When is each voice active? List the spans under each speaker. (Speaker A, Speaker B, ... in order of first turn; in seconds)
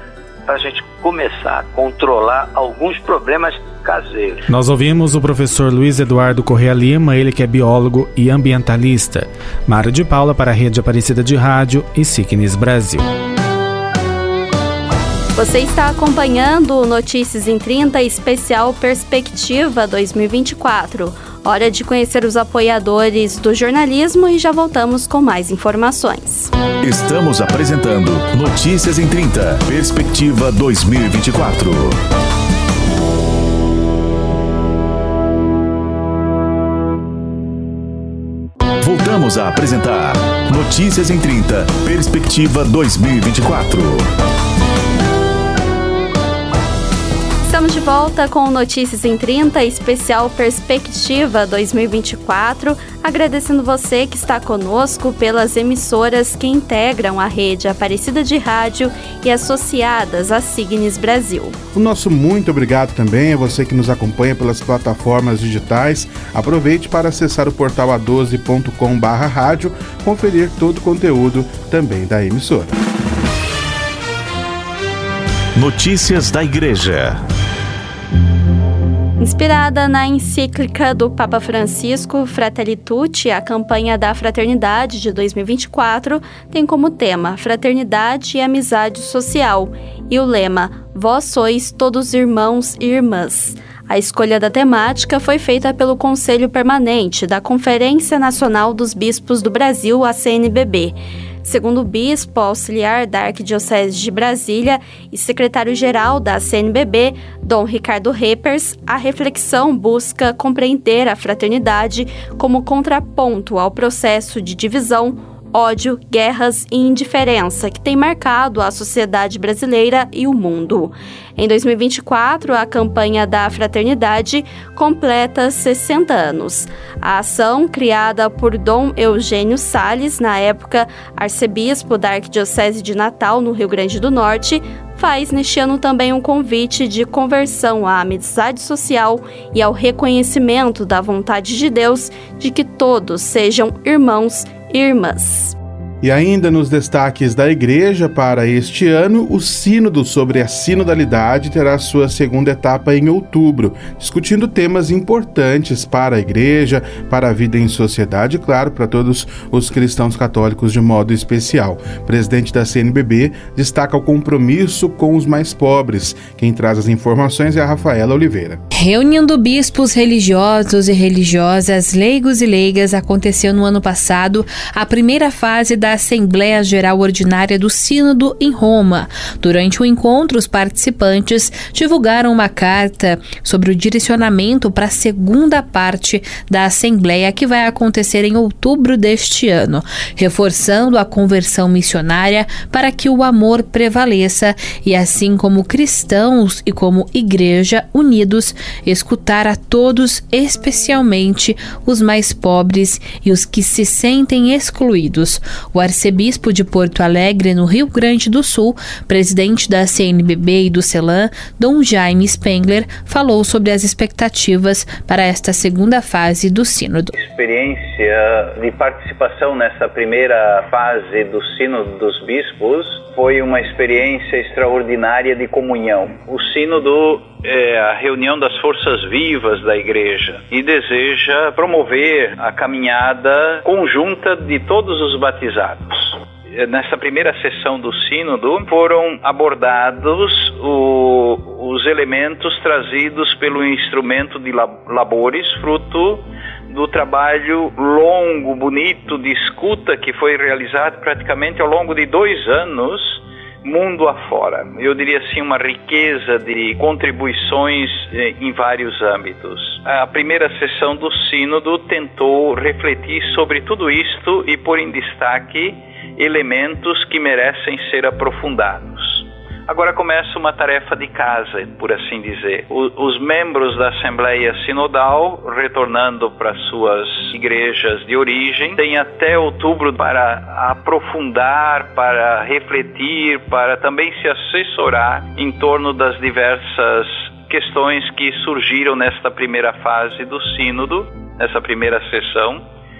Speaker A: 0.5-4.5
Speaker B: 4.5-13.1
Speaker C: 15.3-26.5, 47.4-61.5, 79.2-145.6
Speaker D: 26.8-32.0, 38.8-44.0, 75.5-77.2
Speaker E: 61.7-72.7, 146.0-168.6
Speaker F: 168.7-217.1
Speaker G: 217.1-292.6